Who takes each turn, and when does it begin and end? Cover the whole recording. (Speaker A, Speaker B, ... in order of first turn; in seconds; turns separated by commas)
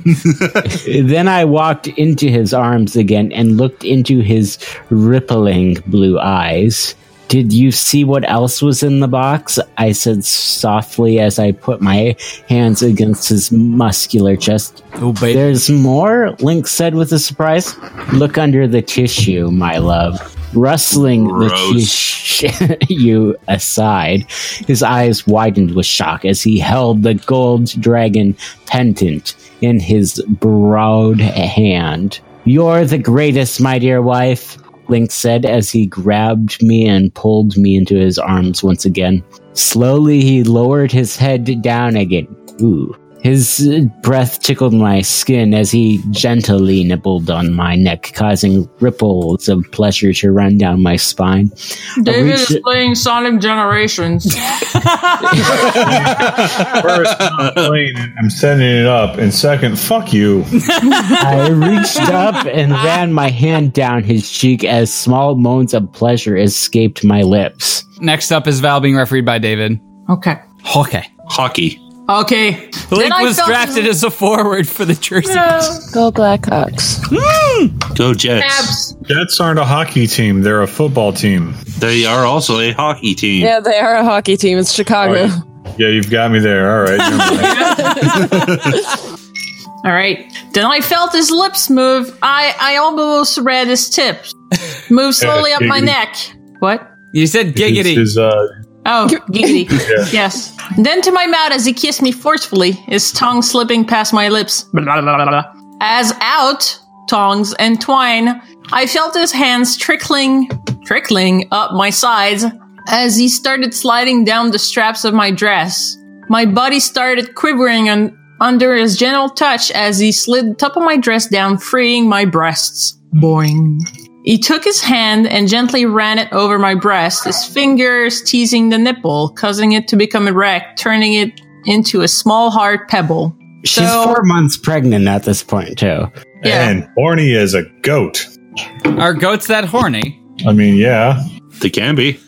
Speaker A: 0.6-51.5, Speaker B: 15.0-15.5, Speaker C: 20.9-22.0, Speaker D: 52.0-54.4, Speaker A: 52.0-52.6, Speaker B: 54.5-55.6, Speaker E: 55.5-60.5, Speaker C: 55.5-57.7, Speaker B: 60.6-61.2, Speaker D: 60.9-61.2, Speaker A: 61.2-67.8, Speaker B: 62.0-62.3, Speaker B: 68.0-69.8, Speaker D: 70.1-70.4, Speaker B: 70.6-71.1, Speaker C: 71.3-71.8, Speaker D: 72.1-73.9, Speaker B: 72.9-75.7, Speaker D: 75.2-75.9, Speaker F: 75.9-77.1, Speaker B: 77.2-77.7, Speaker C: 77.9-78.8, Speaker D: 78.4-79.0, Speaker E: 79.1-81.6, Speaker C: 81.8-83.5, Speaker F: 83.4-85.4, Speaker E: 85.0-87.8, Speaker D: 87.4-88.4, Speaker B: 87.7-88.2, Speaker C: 88.4-88.6, Speaker D: 89.8-94.3, Speaker D: 94.9-96.9, Speaker E: 95.2-96.0, Speaker B: 97.1-98.1, Speaker E: 97.5-98.5, Speaker D: 98.8-134.2, Speaker E: 99.8-100.1, Speaker A: 133.6-136.1, Speaker E: 136.4-138.3, Speaker D: 136.4-136.8, Speaker B: 139.0-140.2, Speaker E: 140.4-141.2, Speaker C: 141.6-142.2